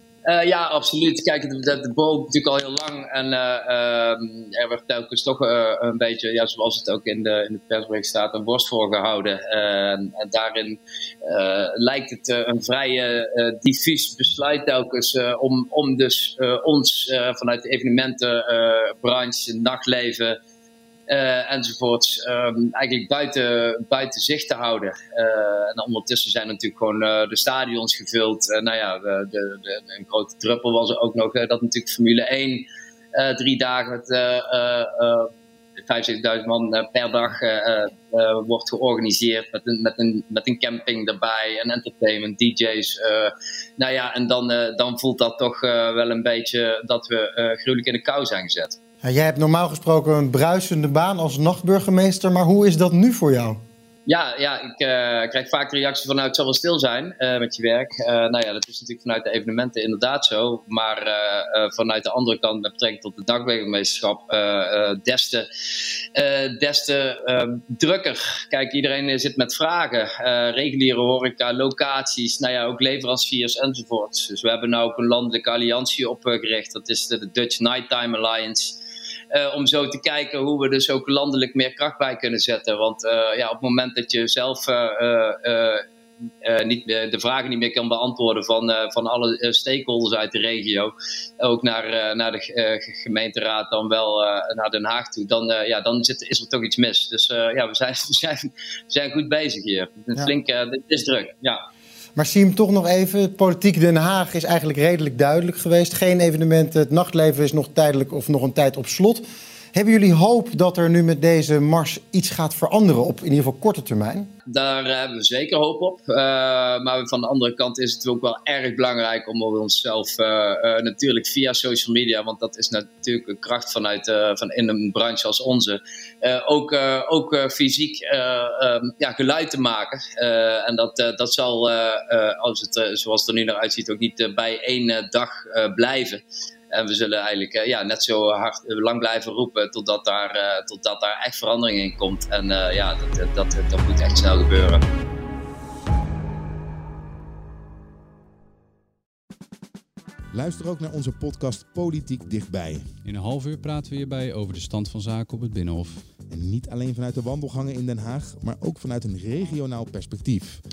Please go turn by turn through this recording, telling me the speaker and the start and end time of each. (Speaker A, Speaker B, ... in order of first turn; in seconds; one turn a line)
Speaker A: 0.3-20.4
Speaker A: 21.1-35.3
Speaker A: 35.9-48.8
Speaker B: 49.0-53.6
Speaker A: 54.1-65.5
Speaker A: 66.2-78.8
Speaker A: 79.3-85.8
Speaker A: 86.4-101.6
Speaker B: 102.2-114.3
Speaker A: 114.5-144.8
Speaker C: 150.3-152.9
Speaker D: 153.0-156.1
Speaker C: 156.3-160.6